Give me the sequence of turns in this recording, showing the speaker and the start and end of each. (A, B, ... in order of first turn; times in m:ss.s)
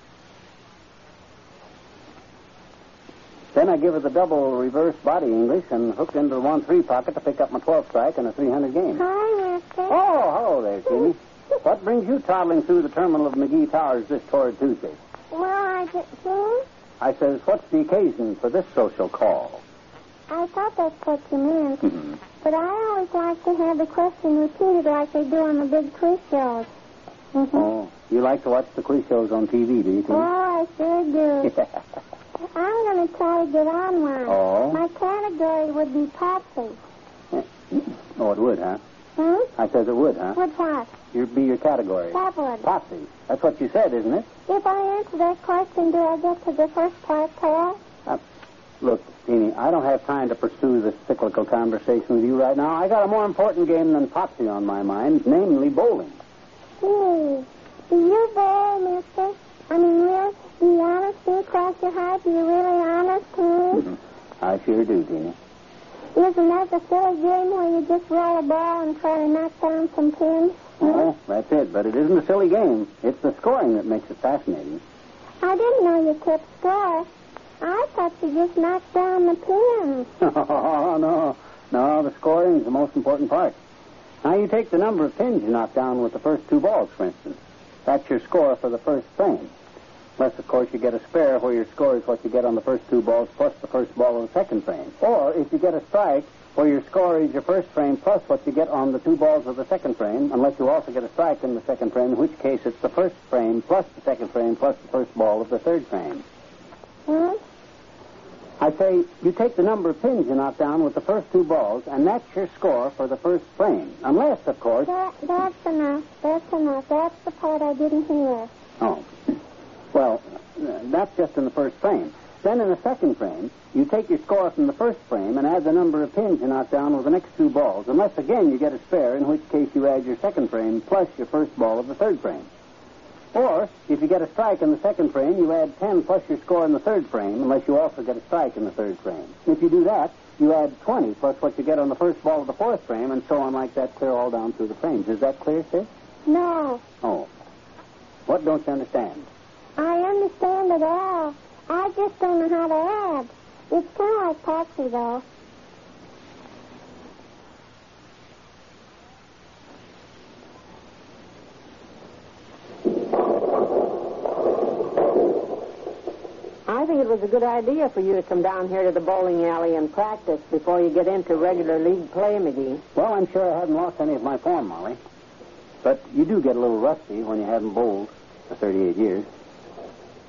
0:03.6-0:09.0 A
0:09.0-0:10.0 B
0:09.9-0:15.0 A
0:15.3-0:16.6 B
0:17.0-0:19.6 A
0:20.3-0:26.7 B
0:27.4-0:27.6 B
0:27.5-0:30.3 A
0:30.1-0:31.5 B
0:32.5-0:36.8 B
0:34.3-0:34.8 A
0:37.3-0:38.8 A
0:39.2-0:39.5 B
0:39.6-0:40.4 A
0:40.4-0:40.9 B
0:41.1-0:44.3 A
0:42.1-0:42.7 B
0:44.5-0:47.8 B
0:48.8-0:56.2 A
0:56.8-1:03.9 B
1:03.9-1:05.4 A
1:06.2-1:11.0 B
1:10.8-1:14.8 A
1:15.4-1:17.1 B
1:17.6-1:20.1 B
1:20.2-1:23.6 A
1:24.2-1:29.5 A
1:30.2-1:46.2 A
1:47.1-1:47.4 B
1:48.6-1:54.9 A
1:54.9-1:58.5 B
1:58.8-1:59.1 A
1:59.9-2:12.5 A
2:13.3-2:25.9 A
2:26.3-2:26.8 B
2:27.0-2:27.3 A
2:28.3-2:29.3 A
2:29.8-2:35.2 B
2:46.7-2:52.8 C
2:53.0-2:55.0 A
2:55.8-2:59.3 A